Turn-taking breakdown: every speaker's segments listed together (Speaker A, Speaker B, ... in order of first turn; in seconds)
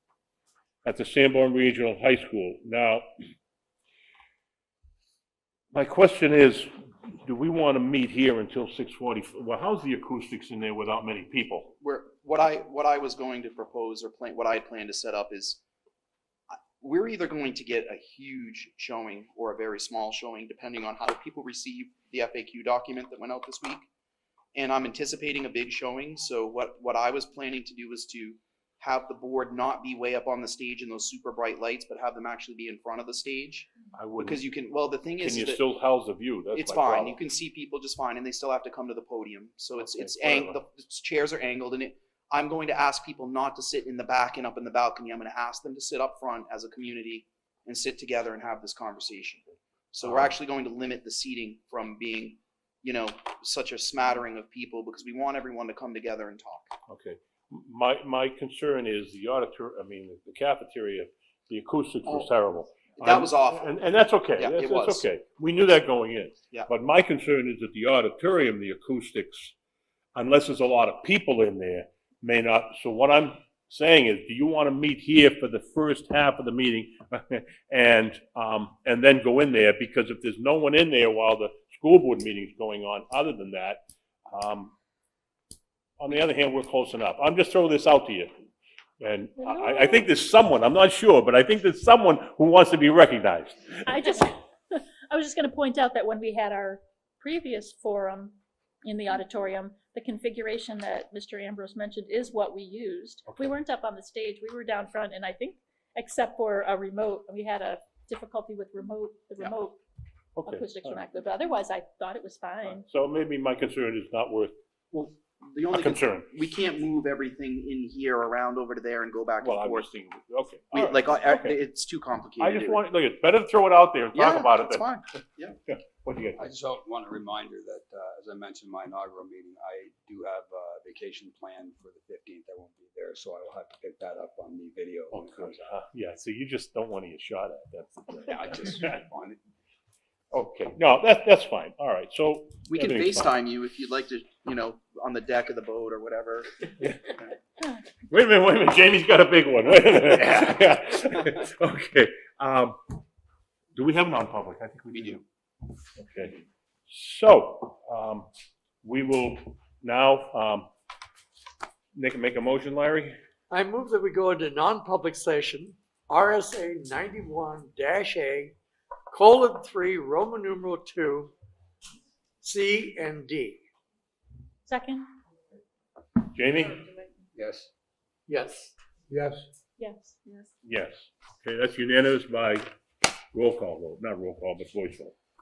Speaker A: 0.8-3.0, 5.7-6.7, 7.2-11.7, 33.9-34.4, 35.2-37.2, 39.8-40.6, 50.0-50.3, 56.9-69.5, 70.2-84.7, 86.0-88.3, 89.0-93.9, 110.4-111.0, 112.7-114.5, 115.7-116.3, 119.4-121.6, 122.4-124.8, 125.7-126.5, 135.1-138.9, 140.3-143.3, 148.1-152.8, 153.8-155.2, 156.0-158.3, 158.8-160.7, 161.9-163.2, 176.3-176.8, 180.6-182.7, 183.3-185.2
Speaker B: 11.8-15.6, 16.5-23.9, 24.5-35.6, 36.5-56.7, 62.1-62.3, 63.0-63.8, 64.4-65.1, 114.9-119.9, 120.7-122.8, 124.1-125.6, 142.7-147.3, 154.9-155.2
Speaker C: 89.4-90.1, 93.8-109.8, 110.5-112.8, 174.7-175.1, 179.8-180.5
Speaker D: 126.4-135.6, 138.3-139.4, 177.3-177.7
Speaker E: 163.5-168.6, 169.1-171.3, 172.4-173.6, 178.3-179.5